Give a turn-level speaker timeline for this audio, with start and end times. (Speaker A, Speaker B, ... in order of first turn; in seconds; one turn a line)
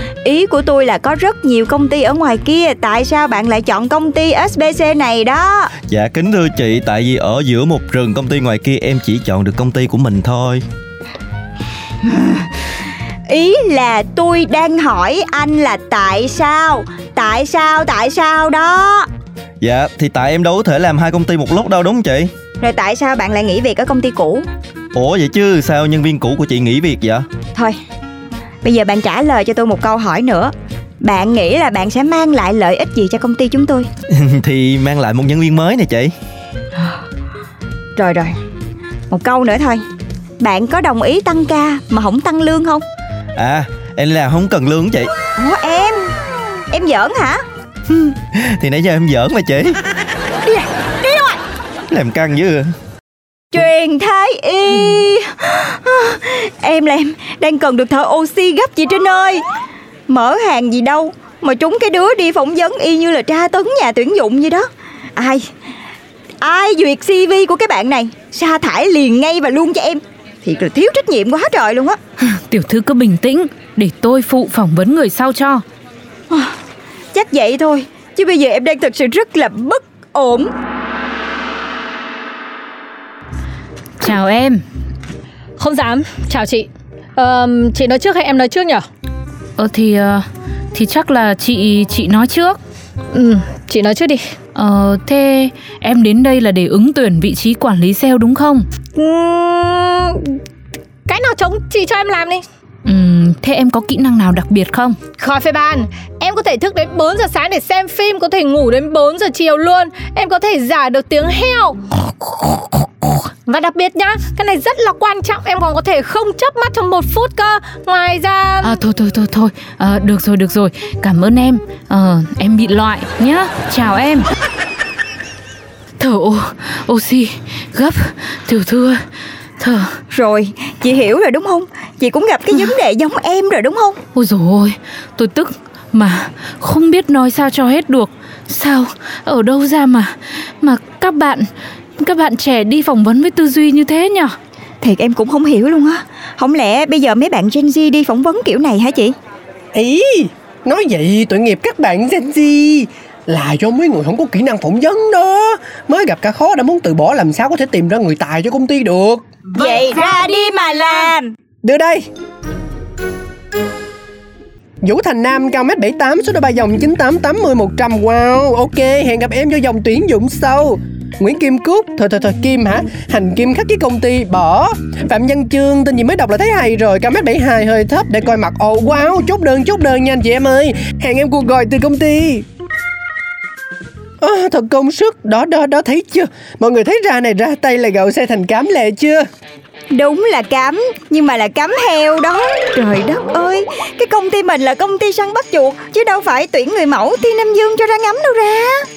Speaker A: 0.2-5.7
Speaker B: 5.9-10.6
Speaker A: 13.3-19.1
Speaker B: 19.6-22.3
Speaker A: 22.6-24.4
Speaker B: 24.9-27.2
Speaker A: 28.6-33.9
Speaker B: 34.2-36.1
Speaker A: 38.0-38.4
Speaker A: 39.1-39.8
Speaker A: 40.4-42.8
Speaker B: 43.4-45.1
Speaker A: 45.4-46.1
Speaker A: 46.7-47.4
Speaker B: 47.9-49.8
Speaker A: 50.4-51.4
Speaker B: 51.9-52.7
Speaker A: 53.5-59.4
Speaker A: 60.1-65.5
Speaker A: 66.4-72.0
Speaker C: 72.2-75.6
Speaker A: 77.1-80.5
Speaker C: 84.0-84.6
Speaker D: 85.6-88.8
Speaker C: 89.6-92.6
Speaker D: 93.1-94.2
Speaker C: 94.5-98.7
Speaker D: 99.0-100.4
Speaker D: 101.1-102.4
Speaker C: 102.9-105.0
Speaker D: 105.2-111.8
Speaker D: 113.5-118.7
Speaker C: 118.6-124.3
Speaker C: 126.0-129.0
Speaker C: 129.6-130.0
Speaker A: 130.1-134.0
Speaker C: 134.1-141.5
Speaker C: 142.0-144.3
Speaker A: 144.8-149.2
Speaker E: 149.7-159.2
Speaker A: 159.5-161.3
Speaker E: 161.6-162.1
Speaker E: 164.8-182.4
Speaker E: 184.2-189.3
Speaker A: 189.9-198.9